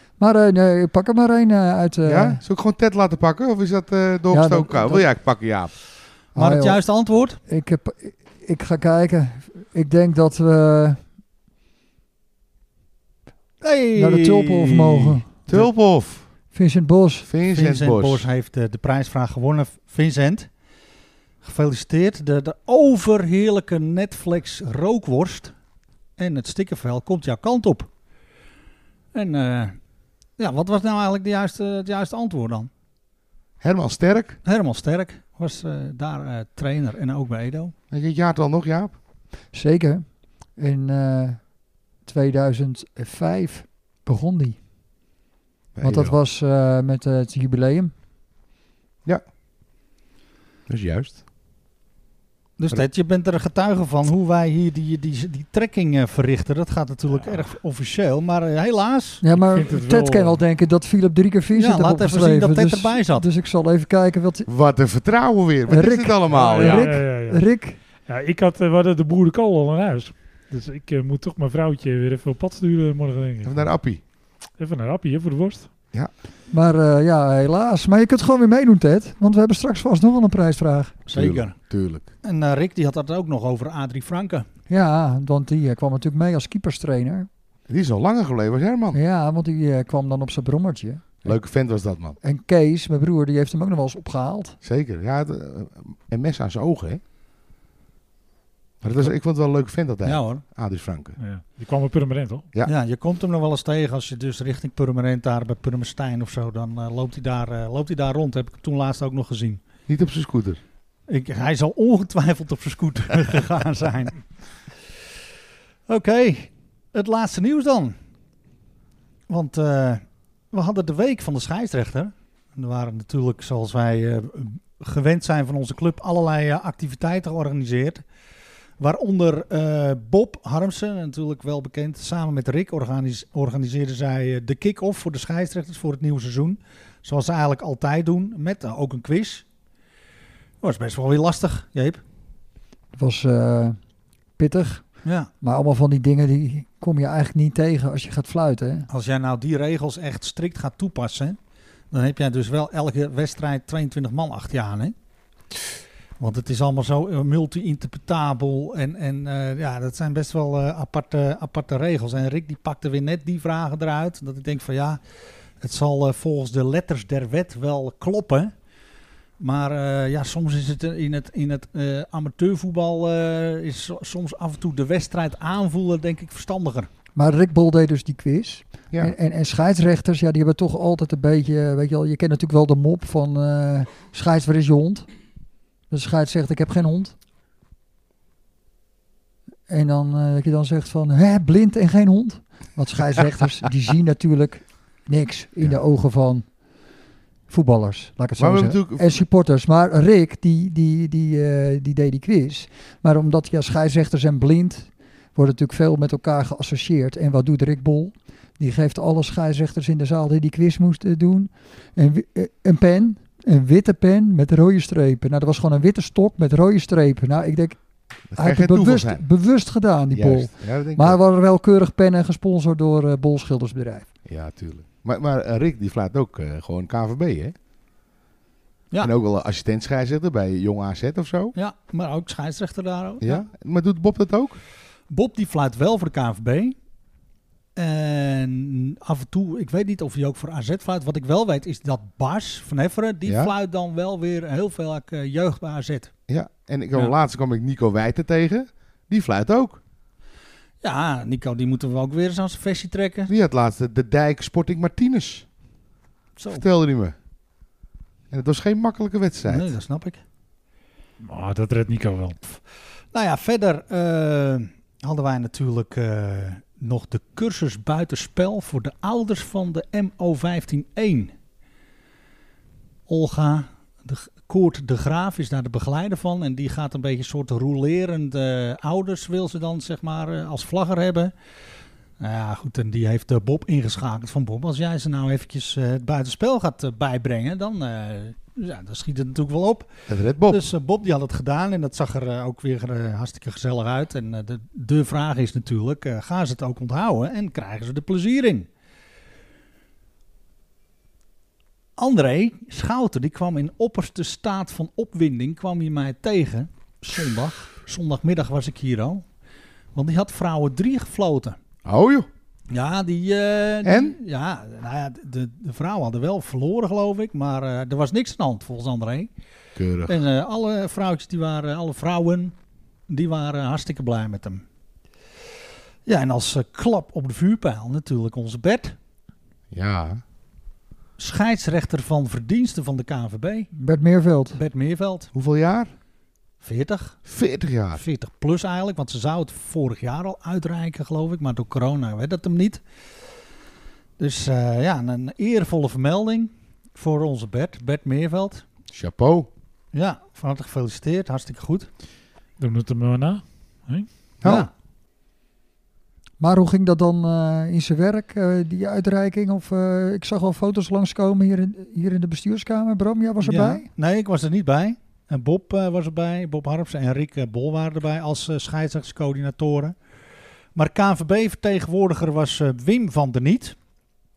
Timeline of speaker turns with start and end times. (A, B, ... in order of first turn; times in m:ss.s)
0:00.2-0:02.4 A
0:02.0-0:05.7 B
0:04.3-0:05.1 A
0:06.3-0:06.8 A
0:06.3-0:07.4 C
0:07.4-0:11.0 A
0:13.6-0:15.6 C
0:14.0-0:15.7 A
0:15.5-0:16.3 B
0:16.5-0:17.3 A
0:17.2-0:18.3 B
0:17.4-0:20.5 C
0:21.4-0:25.5 C
0:26.2-0:27.9 C
0:29.1-0:29.8 C
0:30.4-0:32.7 C
0:33.6-0:34.4 B
0:34.4-0:37.7 C
0:37.9-0:38.9 B
0:39.5-0:40.0 A
0:40.6-0:41.4 A
0:42.0-0:44.6 A
0:45.7-0:46.2 B
0:45.8-0:47.9 A
0:50.7-0:51.2 B
0:52.6-0:59.2 C
0:59.2-1:04.5 A
0:59.4-1:00.4 D
1:01.5-1:03.3 C
1:04.5-1:06.9 B
1:05.7-1:07.8 A
1:06.3-1:07.4 D
1:08.0-1:13.7 D
1:13.4-1:14.0 B
1:14.6-1:15.7 D
1:16.5-1:21.0 A
1:21.1-1:21.6 C
1:21.1-1:22.1 B
1:22.2-1:24.4 C
1:24.7-1:27.3 A
1:27.7-1:29.0 B
1:28.9-1:31.4 A
1:31.2-1:32.2 B
1:32.2-1:34.6 A
1:34.6-1:37.0 B
1:38.8-1:41.2 B
1:40.0-1:40.4 C
1:41.2-1:42.5 D
1:42.6-1:49.6 C
1:49.9-1:50.6 B
1:51.1-1:54.2 C
1:55.9-1:58.0 C
1:59.3-2:08.0 C
2:08.8-2:19.4 C
2:20.6-2:22.0 C
2:22.9-2:23.8 A
2:24.4-2:28.9 A
2:25.0-2:25.3 C
2:28.9-2:31.4 C
2:31.9-2:34.9 C
2:36.2-2:45.0 C
2:45.6-2:48.5 C
2:49.4-2:56.9 C
2:57.1-3:05.1 A
3:05.9-3:07.2 A
3:09.7-3:16.5 A
3:17.5-3:37.8 A
3:18.4-3:19.1 B
3:38.3-3:39.2 B
3:38.4-3:44.1 A
3:40.1-3:41.2 B
3:44.2-3:47.5 B
3:49.0-3:51.5 B
3:51.5-3:53.4 C
3:53.2-3:54.6 B
3:55.1-3:56.8 C
3:57.8-4:06.1 C
4:03.2-4:03.5 B
4:06.3-4:09.8 B
4:10.8-4:13.3 C
4:13.3-4:15.4 B
4:16.4-4:16.6 C
4:16.5-4:17.1 B
4:18.3-4:19.7 B
4:19.4-4:20.2 C
4:21.2-4:22.4 D
4:23.1-4:31.3 C
4:33.1-4:41.3 C
4:42.2-4:49.9 C
4:50.1-4:50.6 B
4:50.5-4:58.7 C
5:02.0-5:09.2 C
5:09.9-5:11.6 C
5:11.8-5:12.3 B
5:12.7-5:19.3 C
5:13.8-5:14.2 B
5:19.8-5:20.2 B
5:20.1-5:22.5 C
5:23.1-5:24.6 C
5:26.0-5:29.0 C
5:29.7-5:30.2 B
5:31.2-5:33.7 C
5:33.7-5:34.6 A
5:34.5-5:35.3 C
5:35.3-5:35.9 B
5:36.6-5:37.2 C
5:37.2-5:38.0 B
5:38.0-5:42.8 C
5:44.2-5:48.6 C
5:48.9-5:49.5 B
5:49.9-5:51.9 C
5:52.6-5:54.1 D
5:54.4-5:54.7 B
5:54.4-5:54.7 C
5:56.4-6:03.9 A
6:03.4-6:10.0 C
6:10.7-6:13.8 C